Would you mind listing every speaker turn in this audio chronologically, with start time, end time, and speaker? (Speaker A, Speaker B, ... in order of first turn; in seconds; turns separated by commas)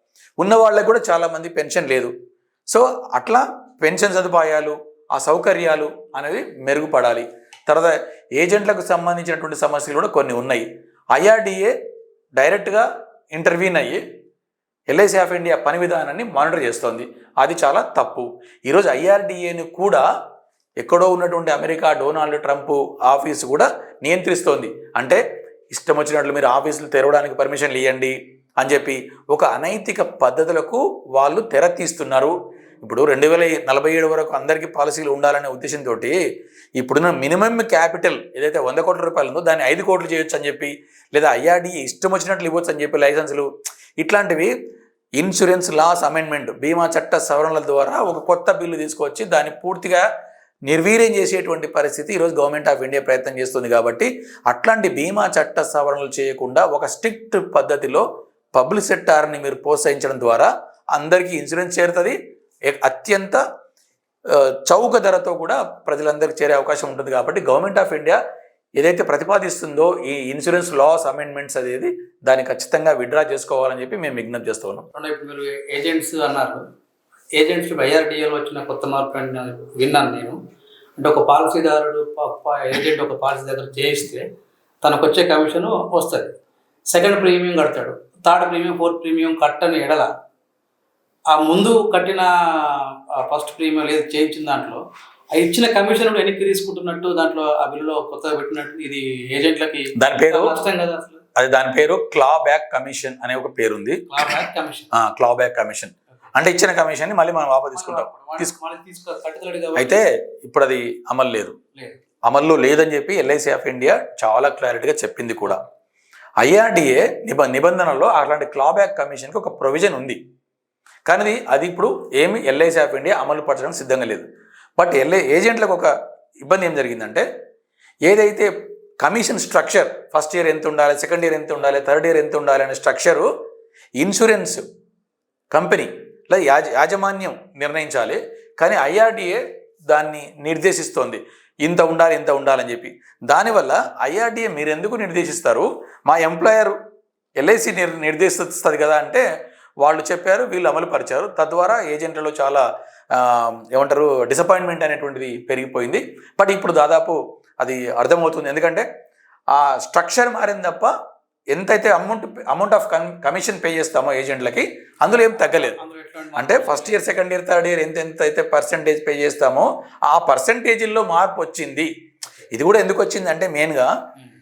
Speaker A: 0.4-2.1, Speaker A: 2.7-11.7, Speaker A: 12.4-14.0, Speaker A: 14.9-20.1, Speaker A: 20.8-36.2, Speaker A: 36.8-44.5, Speaker A: 45.2-50.0, Speaker A: 50.6-63.4, Speaker A: 64.3-68.2, Speaker A: 68.8-74.8, Speaker B: 74.9-76.6, Speaker B: 77.4-80.4, Speaker B: 81.0-84.2, Speaker B: 84.8-86.3, Speaker B: 86.9-90.1, Speaker B: 91.3-94.8, Speaker B: 95.3-101.2, Speaker A: 100.0-100.5, Speaker A: 101.3-104.3, Speaker B: 104.1-104.9, Speaker A: 104.9-108.5, Speaker B: 107.7-110.0, Speaker A: 109.8-111.6, Speaker B: 111.7-112.0, Speaker A: 112.2-115.6, Speaker A: 116.4-120.2, Speaker A: 121.1-124.3, Speaker A: 124.8-125.9, Speaker A: 126.4-127.2, Speaker A: 128.1-133.3, Speaker A: 134.0-134.6, Speaker A: 135.5-146.8, Speaker A: 147.4-149.2, Speaker A: 149.8-158.9, Speaker A: 159.5-160.9, Speaker A: 161.5-165.8, Speaker B: 165.1-167.0, Speaker A: 166.3-171.9, Speaker A: 172.5-173.9